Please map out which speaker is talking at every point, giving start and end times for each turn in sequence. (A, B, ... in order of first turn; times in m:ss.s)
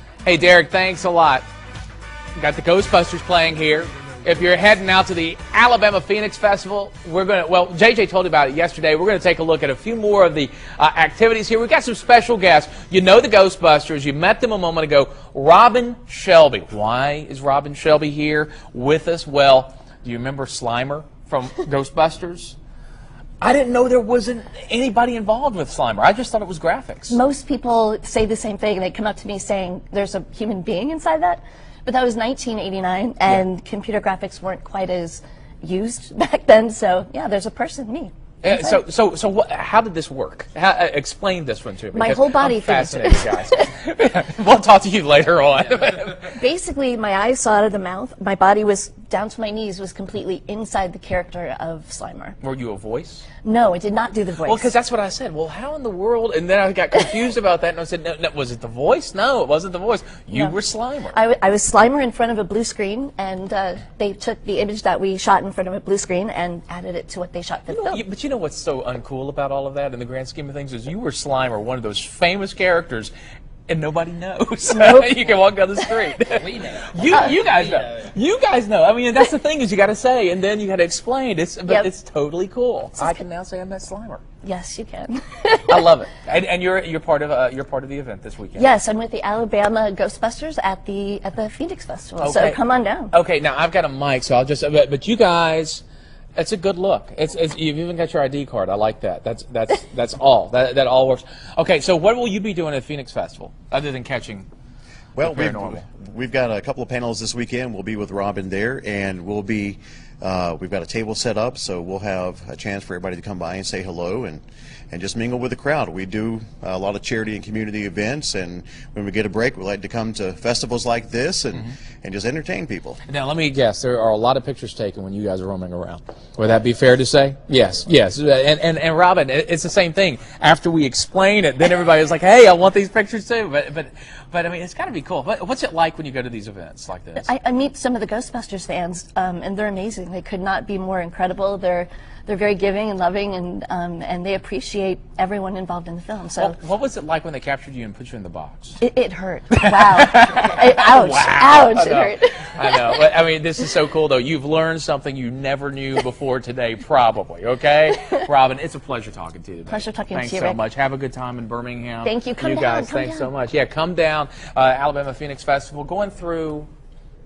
0:00.2-0:01.5 A
0:02.4-0:22.6 A
0:23.4-0:27.2 A
0:27.1-0:38.8 B
0:38.4-0:46.4 A
0:41.9-0:43.7 B
0:46.4-0:52.4 B
0:52.4-0:53.3 A
0:53.4-0:54.7 B
0:54.4-1:01.2 A
1:01.1-1:08.0 B
1:07.7-1:13.1 A
1:13.7-1:24.2 A
1:14.7-1:15.2 B
1:23.0-1:23.2 B
1:24.4-1:25.9 B
1:25.7-1:28.7 A
1:28.6-1:33.1 B
1:32.2-1:32.6 A
1:33.1-1:35.8 A
1:36.4-1:44.5 A
1:45.2-2:03.0 C
1:45.2-1:45.8 A
2:03.0-2:17.3 A
2:17.2-2:26.6 B
2:26.4-2:28.8 A
2:28.8-2:33.0 B
2:29.6-2:46.7 A
2:39.7-2:40.6 B
2:42.0-2:43.3 B